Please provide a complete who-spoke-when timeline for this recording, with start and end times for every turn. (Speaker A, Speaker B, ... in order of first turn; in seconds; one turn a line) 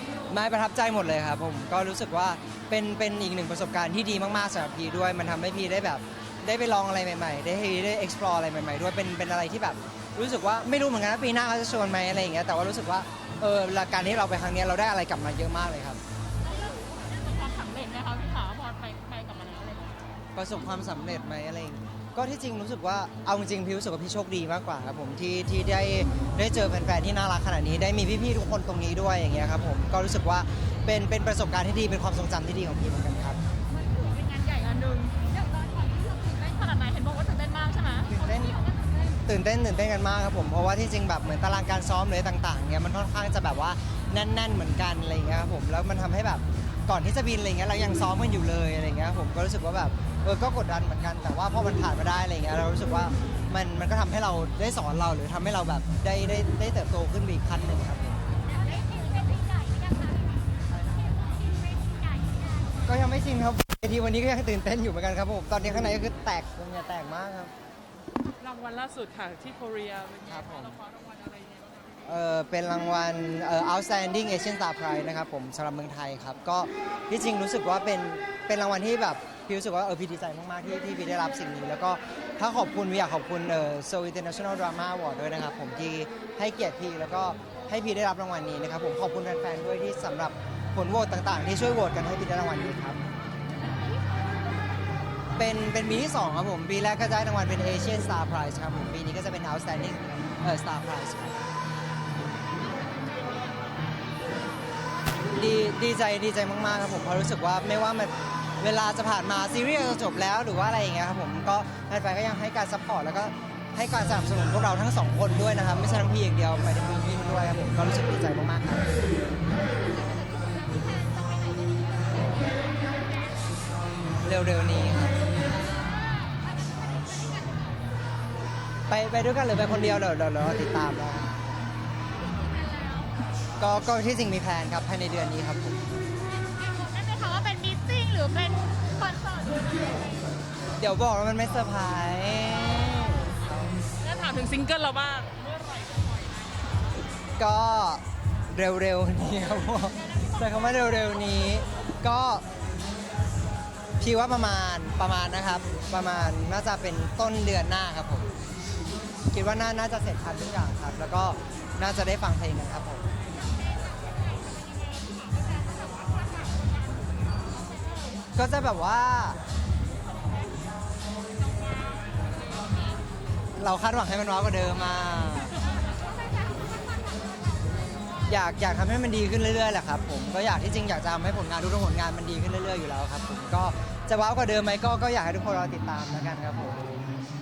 Speaker A: 0.3-16.0
Speaker B: 16.4-20.0
Speaker A: 20.4-33.4
Speaker B: 33.7-39.2
Speaker A: 38.1-38.6
Speaker A: 39.2-58.2
Speaker A: 62.8-67.5
Speaker C: 68.4-72.0
Speaker A: 70.3-70.8
Speaker A: 72.0-93.0
Speaker A: 95.4-101.5
Speaker A: 105.3-118.9
Speaker B: 120.1-122.0
Speaker A: 124.2-125.2
Speaker A: 128.9-131.7
Speaker B: 132.3-133.1
Speaker A: 133.6-135.9
Speaker B: 136.5-140.1
Speaker A: 140.8-143.8
Speaker C: 144.0-146.6
Speaker A: 147.4-152.5
Speaker A: 154.0-158.3
Speaker A: 159.3-163.1
Speaker B: 163.5-166.5
Speaker A: 168.3-169.4
Speaker A: 173.6-175.6
Speaker B: 176.1-177.2
Speaker A: 178.3-187.0